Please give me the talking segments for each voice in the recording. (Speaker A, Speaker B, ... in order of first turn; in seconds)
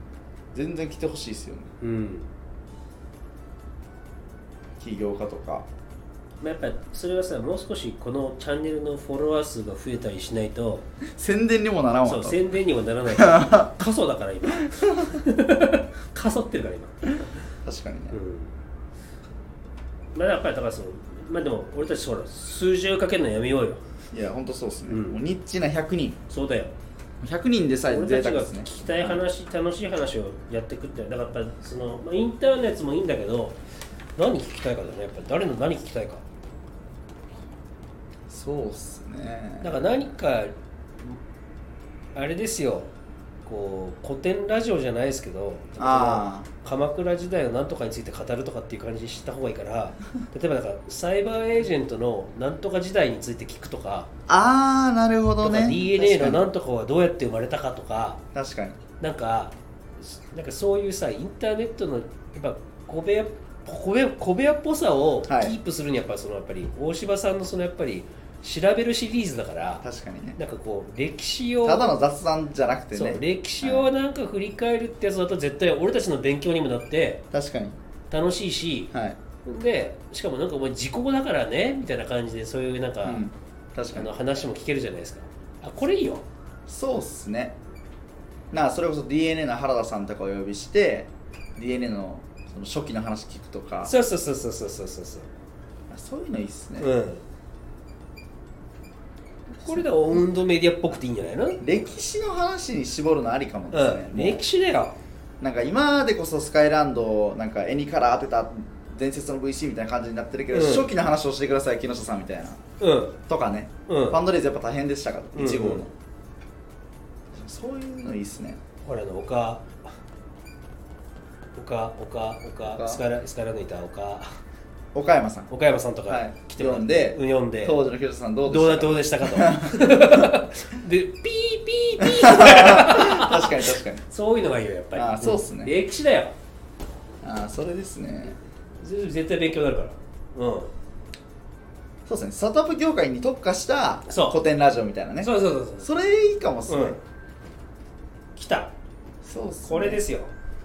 Speaker A: 0.5-1.7, 4.8-5.7, 11.1-12.4, 13.2-13.6, 17.6-18.2, 24.1-26.2, 27.2-29.2, 38.3-39.8, 45.8-46.5, 54.3-56.4, 58.3-58.8, 65.3-65.6, 69.8-70.4, 71.6-73.9, 77.3-77.8, 78.9-79.2, 83.0-84.1, 86.7-87.5, 88.5-93.9, 95.9-96.9, 99.6-100.3, 101.6-104.4, 105.4-112.6, 113.3-115.9, 117.3-118.6, 122.6-123.0, 124.9-125.5, 126.1-130.2, 132.0-134.0, 134.9-135.7, 137.2-138.4, 142.1-147.0, 149.2-150.0
Speaker B: 1.8-2.3, 6.4-10.8, 12.0-17.4, 18.1-18.5, 20.1-23.8, 24.9-25.2, 26.3-26.7, 27.9-33.6, 34.1-36.2, 39.6-41.2, 42.1-42.9, 43.4-54.1, 55.4-58.2, 59.0-69.8, 70.3-71.9, 72.9-77.2, 78.1-78.9, 79.4-83.2, 83.9-86.2, 93.8-95.3, 96.8-97.2, 99.5-101.6, 103.7-105.0, 110.5-110.9, 112.8-113.2, 113.9-114.2, 115.3-115.8, 118.8-119.7, 121.5-124.3, 125.5-127.8, 128.5-136.3, 138.8-140.7, 144.1-144.4, 145.2-145.9, 146.7-147.0, 148.3-148.7, 149.6-150.3